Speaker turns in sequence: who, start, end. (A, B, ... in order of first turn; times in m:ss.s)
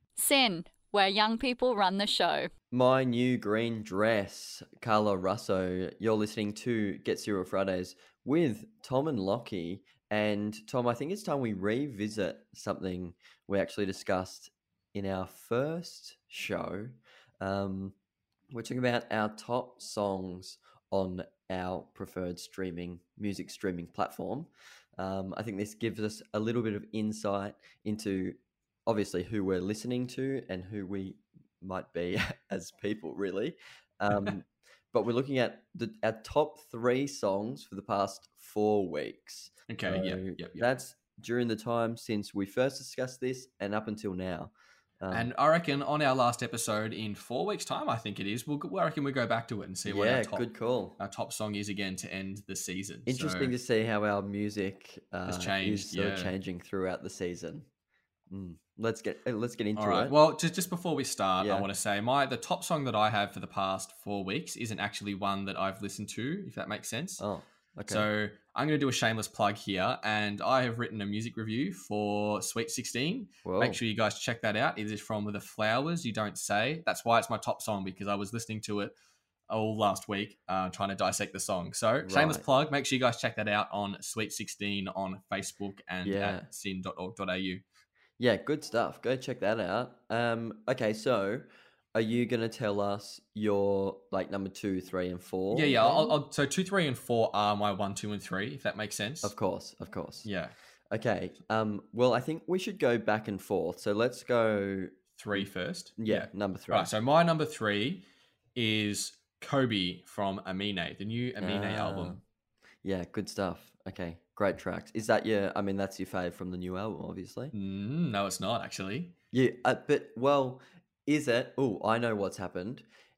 0:00.2-0:02.5 A
0:02.7-0:17.9 B
0:18.5-0:45.3 B
0:39.7-0:40.7 C
0:45.1-0:50.4 C
0:49.8-0:51.0 B
0:51.0-0:53.5 C
0:53.1-0:57.7 B
0:55.3-0:56.3 C
0:58.3-1:00.1 B
0:59.8-1:07.2 C
1:01.4-1:01.7 B
1:07.2-1:08.0 B
1:07.9-1:18.9 C
1:13.4-1:13.8 B
1:19.5-1:27.6 C
1:22.0-1:22.4 B
1:26.0-1:26.5 B
1:28.2-1:36.2 B
1:35.5-1:39.3 C
1:39.2-1:40.3 B
1:40.2-1:40.5 C
1:40.9-1:46.9 B
1:45.2-1:48.0 C
1:48.5-1:52.2 C
1:51.4-1:52.2 B
1:52.8-1:57.5 B
1:57.5-1:59.1 C
1:59.3-2:02.8 B